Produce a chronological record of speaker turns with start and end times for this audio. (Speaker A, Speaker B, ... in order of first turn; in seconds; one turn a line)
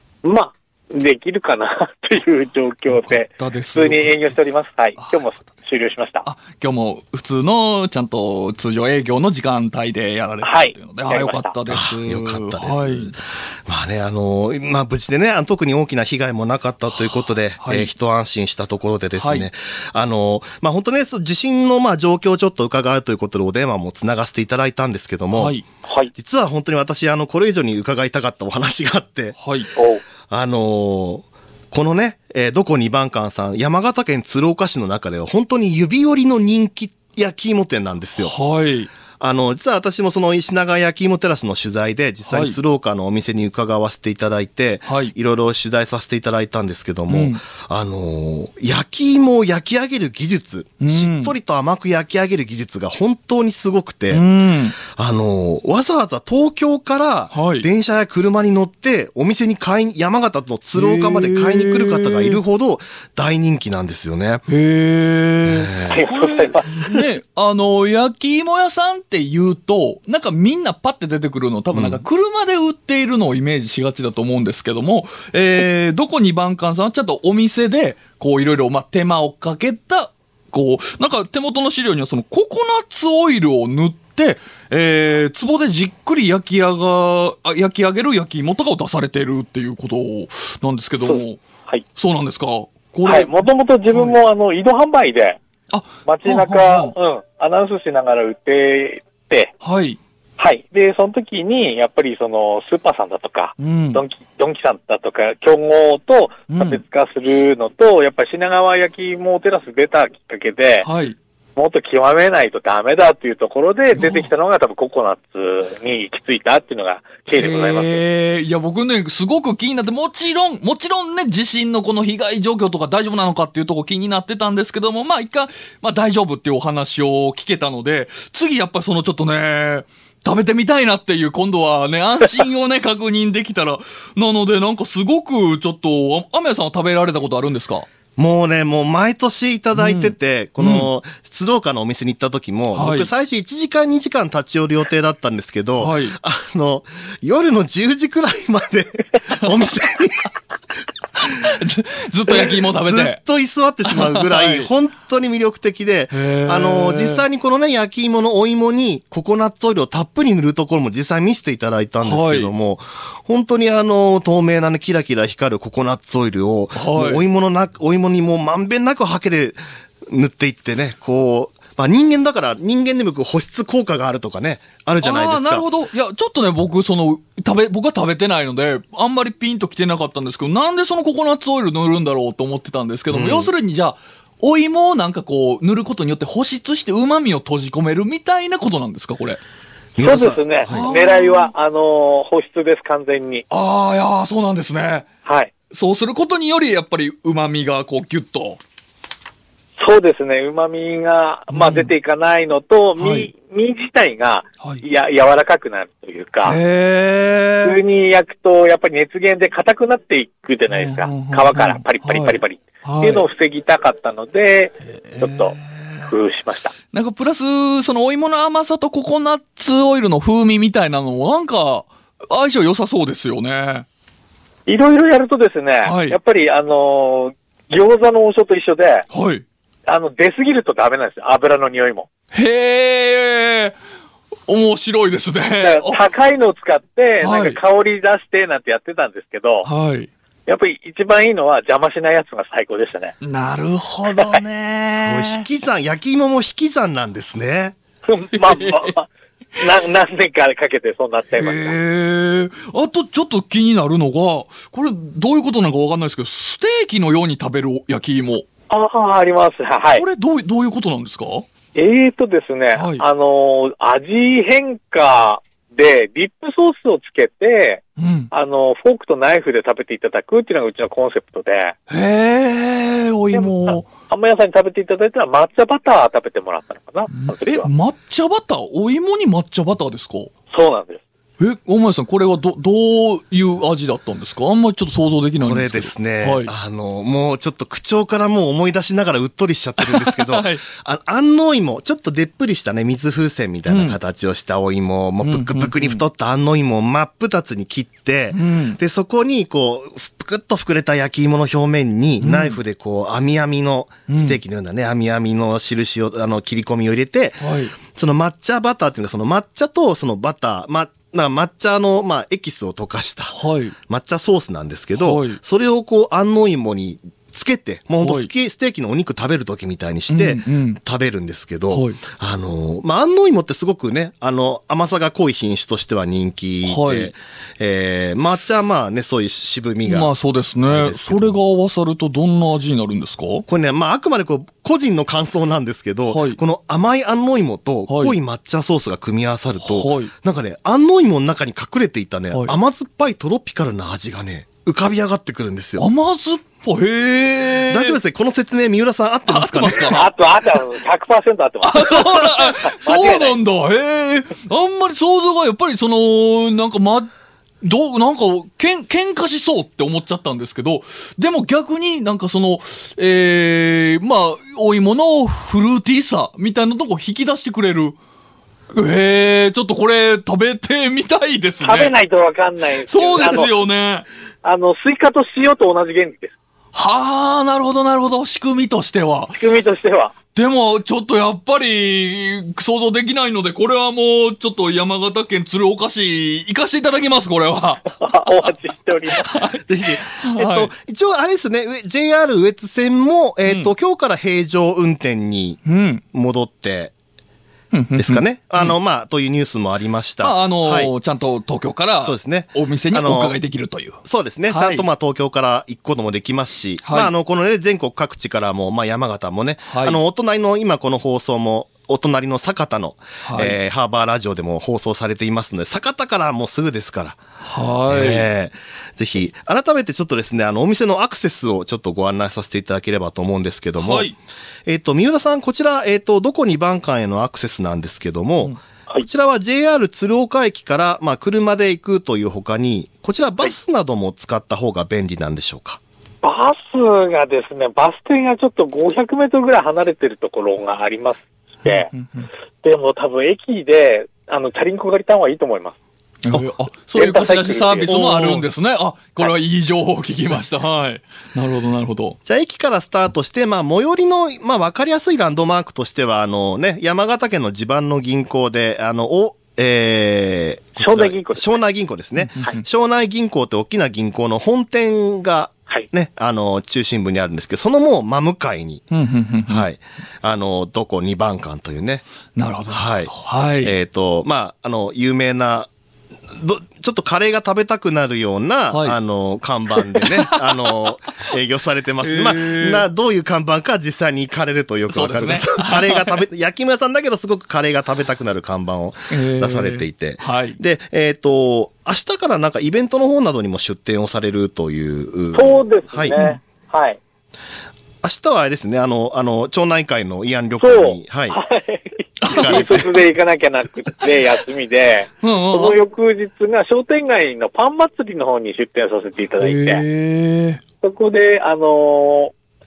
Speaker A: 0.2-6.3
Speaker B: 2.9-4.2
Speaker B: 5.0-5.4
Speaker B: 6.2-13.1
Speaker A: 10.4-11.6
Speaker C: 11.7-25.6
Speaker B: 17.6-17.9
Speaker B: 19.2-19.5
Speaker B: 25.3-25.6
Speaker A: 25.8-26.1
Speaker C: 26.1-29.4
Speaker B: 29.4-29.7
Speaker A: 29.8-30.0
Speaker C: 30.3-38.4
Speaker B: 38.2-38.9
Speaker C: 39.2-54.2
Speaker B: 42.3-42.6
Speaker B: 44.9-45.1
Speaker B: 47.1-47.4
Speaker B: 50.8-51.4
Speaker B: 54.1-54.8
Speaker C: 54.9-64.5
Speaker B: 57.3-57.7
Speaker B: 60.8-62.4
Speaker B: 64.5-91.4
Speaker C: 65.5-66.0
Speaker A: 65.9-66.7
Speaker C: 71.7-72.0
Speaker A: 91.1-91.8
Speaker B: 92.0-93.3
Speaker A: 93.0-95.4
Speaker B: 93.9-94.2
Speaker B: 95.7-96.9
Speaker A: 96.0-99.5
Speaker B: 99.6-100.0
Speaker A: 100.4-110.9
Speaker B: 103.6-104.0
Speaker B: 106.5-106.8
Speaker B: 110.8-111.2
Speaker A: 111.6-118.0
Speaker B: 113.9-114.3
Speaker B: 117.3-137.9
Speaker C: 138.2-150.3
Speaker B: 139.8-140.9
Speaker B: 142.8-143.1
Speaker B: 145.8-146.2
Speaker B: 151.2-153.2
Speaker C: 152.8-175.7
Speaker B: 153.9-154.7
Speaker B: 156.1-157.3
Speaker B: 162.0-162.5
Speaker B: 166.8-167.2
Speaker B: 175.0-189.4
Speaker C: 183.1-183.5
Speaker C: 190.0-190.9
Speaker A: 190.0-193.4
Speaker B: 190.7-191.5
Speaker B: 193.5-195.1
Speaker A: 195.2-195.5
Speaker B: 195.7-198.6
Speaker A: 199.8-206.6
Speaker B: 201.5-201.9
Speaker B: 203.0-203.3
Speaker B: 206.4-207.8
Speaker A: 207.6-216.7
Speaker B: 210.7-213.3
Speaker B: 215.1-216.1
Speaker B: 216.9-223.9
Speaker A: 224.7-229.1
Speaker B: 225.8-226.2
Speaker B: 229.1-229.4
Speaker A: 229.9-232.1
Speaker B: 232.3-233.8
Speaker B: 234.5-236.0
Speaker A: 235.6-239.7
Speaker B: 237.2-237.6
Speaker B: 239.6-240.1
Speaker A: 240.5-243.1
Speaker B: 243.2-245.5
Speaker A: 244.1-244.4
Speaker C: 244.9-247.8
Speaker A: 248.1-251.8
Speaker B: 248.3-248.9
Speaker B: 251.3-258.4
Speaker A: 258.7-260.0
Speaker B: 259.9-261.4
Speaker A: 261.7-271.8
Speaker B: 262.7-263.0
Speaker B: 268.0-268.3
Speaker B: 271.9-273.9
Speaker A: 273.3-277.7
Speaker B: 277.1-280.3
Speaker A: 280.5-281.0
Speaker B: 281.4-286.5
Speaker C: 285.4-313.4
Speaker B: 289.8-290.6
Speaker B: 293.7-294.0
Speaker B: 295.2-296.0
Speaker B: 298.3-298.8
Speaker B: 302.2-302.6
Speaker B: 304.1-304.4
Speaker B: 307.4-307.8
Speaker B: 313.3-313.8
Speaker C: 313.9-330.1
Speaker B: 315.0-315.4
Speaker B: 318.0-318.3
Speaker B: 320.1-320.8
Speaker B: 321.7-322.0
Speaker B: 326.6-327.1
Speaker B: 329.9-333.4
Speaker C: 330.7-331.4
Speaker C: 333.5-345.9
Speaker B: 336.1-336.4
Speaker B: 337.9-338.2
Speaker B: 339.6-340.1
Speaker B: 342.3-342.6
Speaker B: 345.8-348.0
Speaker C: 347.6-350.1
Speaker B: 349.3-350.1
Speaker A: 349.9-353.4
Speaker B: 351.6-357.1
Speaker B: 357.6-368.0
Speaker B: 368.7-371.9
Speaker A: 371.6-373.5
Speaker B: 372.9-374.1
Speaker A: 374.4-376.3
Speaker B: 376.7-379.4
Speaker A: 379.4-380.1
Speaker B: 380.4-388.5
Speaker A: 387.9-389.3
Speaker B: 389.1-390.7
Speaker C: 389.6-395.6
Speaker B: 393.5-393.7
Speaker B: 395.7-396.0
Speaker C: 396.1-396.9
Speaker B: 397.7-398.8
Speaker C: 398.0-400.9
Speaker B: 400.2-404.9
Speaker C: 402.0-403.4
Speaker C: 404.1-417.2
Speaker B: 406.8-407.1
Speaker B: 409.7-410.0
Speaker B: 413.2-413.6
Speaker B: 417.4-418.3
Speaker C: 417.9-424.1
Speaker B: 423.8-424.1
Speaker C: 424.7-435.8
Speaker A: 436.2-441.9
Speaker B: 441.6-442.3
Speaker A: 442.6-445.8
Speaker B: 446.3-452.2
Speaker A: 446.9-447.9
Speaker C: 447.9-448.4
Speaker C: 452.2-468.9
Speaker A: 460.8-461.6
Speaker B: 462.2-462.6
Speaker B: 468.9-469.7
Speaker C: 469.5-472.1
Speaker B: 472.4-473.7
Speaker C: 472.7-475.7
Speaker C: 476.3-496.2
Speaker B: 478.7-479.0
Speaker B: 480.0-480.4
Speaker B: 482.0-482.9
Speaker B: 484.9-486.2
Speaker B: 489.1-490.6
Speaker A: 495.3-497.0
Speaker B: 496.1-496.4
Speaker C: 498.0-501.4
Speaker A: 500.6-509.8
Speaker B: 502.2-502.9
Speaker C: 502.3-502.9
Speaker B: 505.2-505.8
Speaker B: 509.4-510.6
Speaker A: 510.8-512.3